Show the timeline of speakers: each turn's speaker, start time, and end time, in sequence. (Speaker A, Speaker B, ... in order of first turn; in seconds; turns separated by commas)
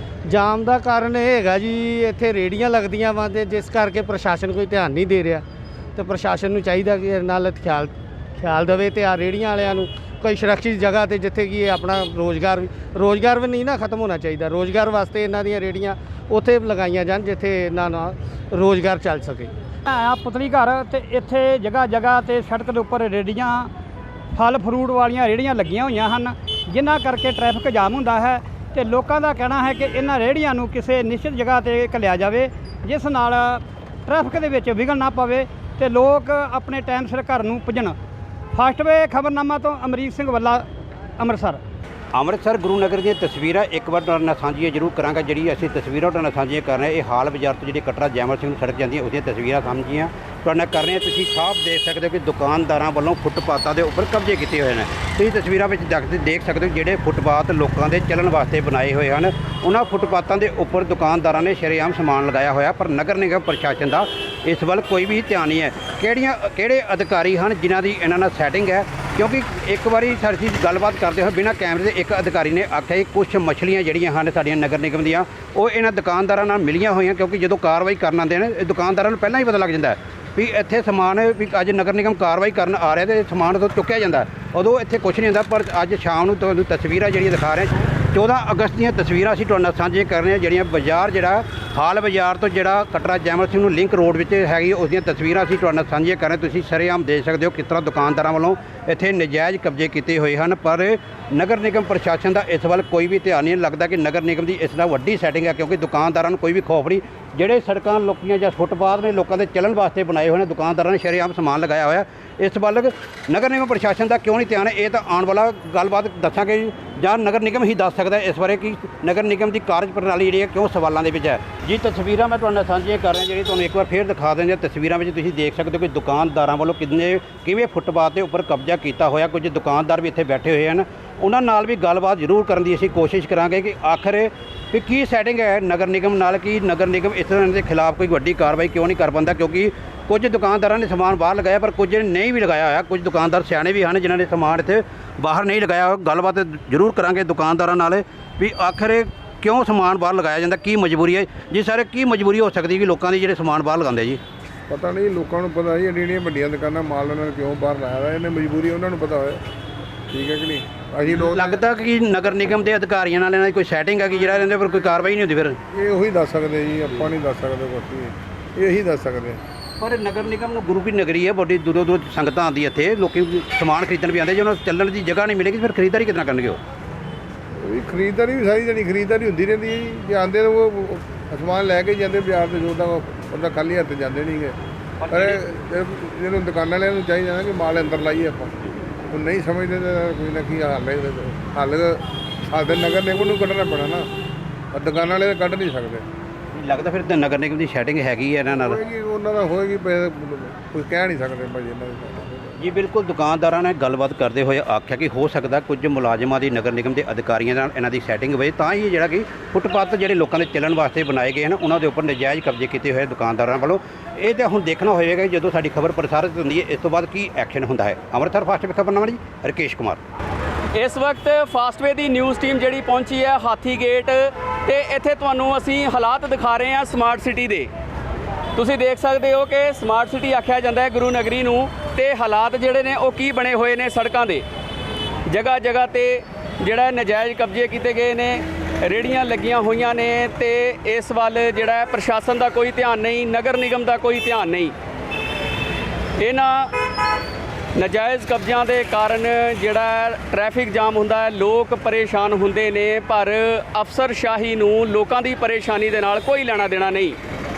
Speaker A: 0.3-5.5, Speaker A: 6.0-19.5, Speaker B: 19.9-23.7, Speaker B: 24.3-38.0, Speaker B: 38.5-41.6, Speaker C: 42.1-154.2, Speaker D: 154.7-159.4, Speaker D: 160.1-161.6, Speaker C: 161.1-165.6, Speaker D: 165.7-169.4, Speaker C: 169.8-176.6, Speaker D: 177.6-184.6, Speaker C: 185.0-185.4, Speaker D: 185.1-188.6, Speaker D: 189.1-194.1, Speaker D: 194.7-196.1, Speaker C: 196.5-198.8, Speaker D: 198.7-202.6, Speaker C: 202.6-220.0, Speaker E: 220.8-227.7, Speaker E: 228.6-234.4, Speaker E: 235.3-244.7, Speaker E: 246.2-246.7, Speaker E: 247.8-257.2